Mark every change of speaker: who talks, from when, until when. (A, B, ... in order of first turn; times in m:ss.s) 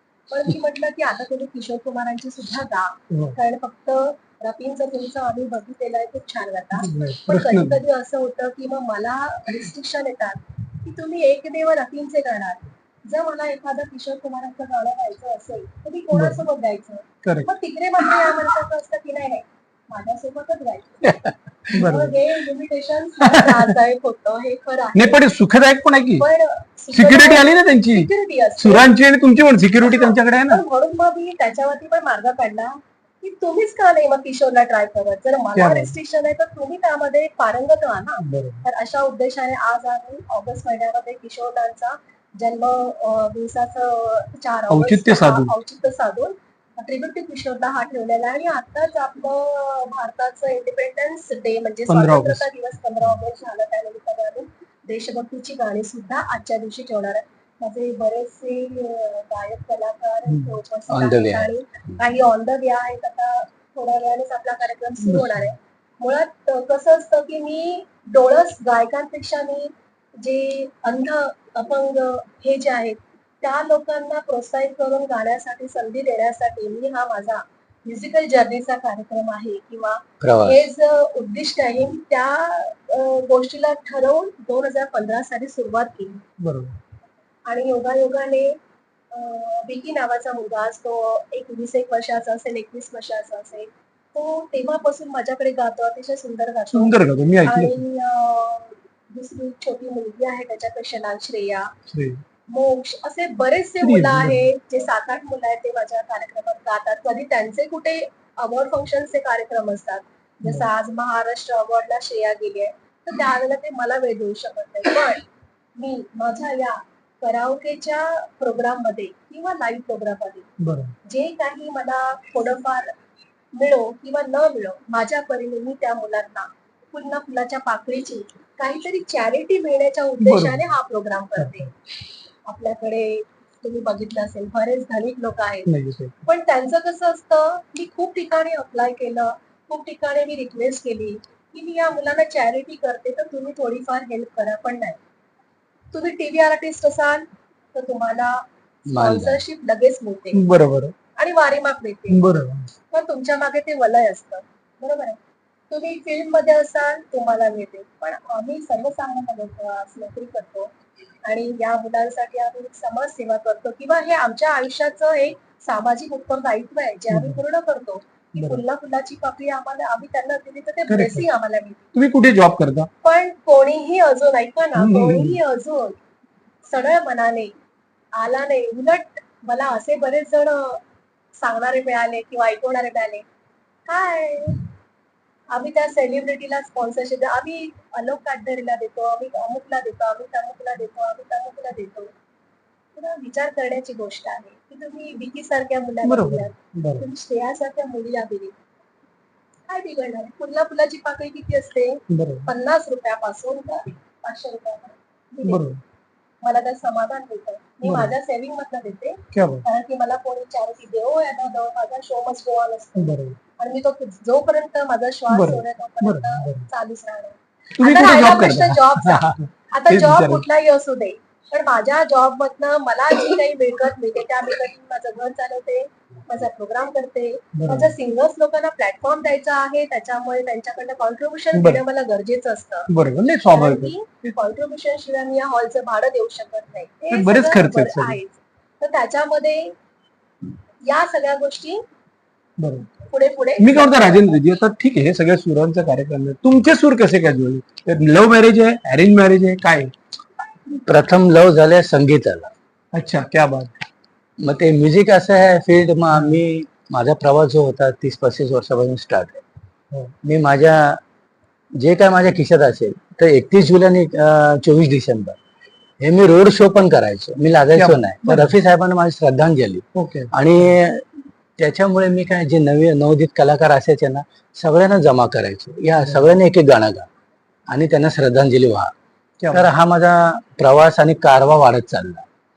0:00.3-0:25.2 A
0:03.1-0:03.4 B
0:06.8-0:07.8 B
0:16.1-0:16.4 B
0:17.2-0:17.5 B
0:21.7-0:22.2 B
0:23.2-0:23.8 B
0:25.0-0:26.2 B
0:26.2-0:28.9 A
0:26.9-0:28.1 B
0:28.6-0:30.6 B
0:29.8-1:26.2 A
0:35.6-0:36.0 B
0:38.2-0:38.7 B
0:44.7-0:45.5 B
0:51.9-0:52.5 B
1:00.9-1:01.5 C
1:05.0-1:05.5 B
1:20.2-1:20.7 C
1:26.4-1:26.8 B
1:27.5-1:28.6 A
1:29.1-1:41.7 A
1:36.7-1:37.8 B
1:41.9-1:42.2 B
1:42.5-1:55.2 A
1:43.8-1:44.4 B
1:55.8-2:00.5 A
2:00.6-2:01.0 B
2:01.0-2:02.9 A
2:03.5-2:11.7 A
2:10.2-2:10.6 B
2:11.4-2:11.6 B
2:12.5-2:15.7 A
2:15.7-2:16.2 B
2:16.2-2:25.0 A
2:25.9-2:30.4 A
2:28.9-2:29.4 C
2:30.3-2:30.9 B
2:31.2-2:32.2 A
2:32.1-2:32.7 B
2:32.9-2:40.7 A
2:41.2-2:51.9 A
2:47.1-2:47.4 B
2:50.9-2:51.2 B
2:52.0-2:52.9 B
2:53.0-2:56.0 A
2:54.8-2:55.4 B
2:56.6-2:57.5 A
2:58.2-3:00.8 A
3:01.4-3:03.2 A
3:03.9-3:04.7 A
3:05.5-3:12.1 A
3:13.0-3:18.6 A
3:16.0-3:17.0 B
3:19.7-3:25.6 A
3:22.1-3:22.5 B
3:25.5-3:25.8 B
3:26.4-3:52.9 A
3:27.8-3:28.1 B
3:29.3-3:29.6 B
3:33.0-3:33.4 B
3:35.3-3:36.7 B
3:37.8-3:40.4 B
3:47.6-3:47.9 B
3:51.5-3:51.8 B
3:52.9-3:53.9 B
3:53.5-3:59.8 A
3:57.1-3:58.2 B
4:00.8-4:01.8 A
4:02.6-4:02.9 B
4:03.1-4:04.4 A
4:03.6-4:09.9 B
4:10.8-4:12.5 C
4:12.9-4:13.7 B
4:14.4-4:19.4 C
4:20.2-4:21.0 C
4:21.8-4:25.4 C
4:26.0-4:31.1 C
4:27.7-4:28.5 B
4:30.0-4:30.3 B
4:31.6-4:37.1 C
4:36.0-4:36.3 B
4:37.7-4:38.9 C
4:39.4-4:39.7 B
4:39.5-4:42.3 C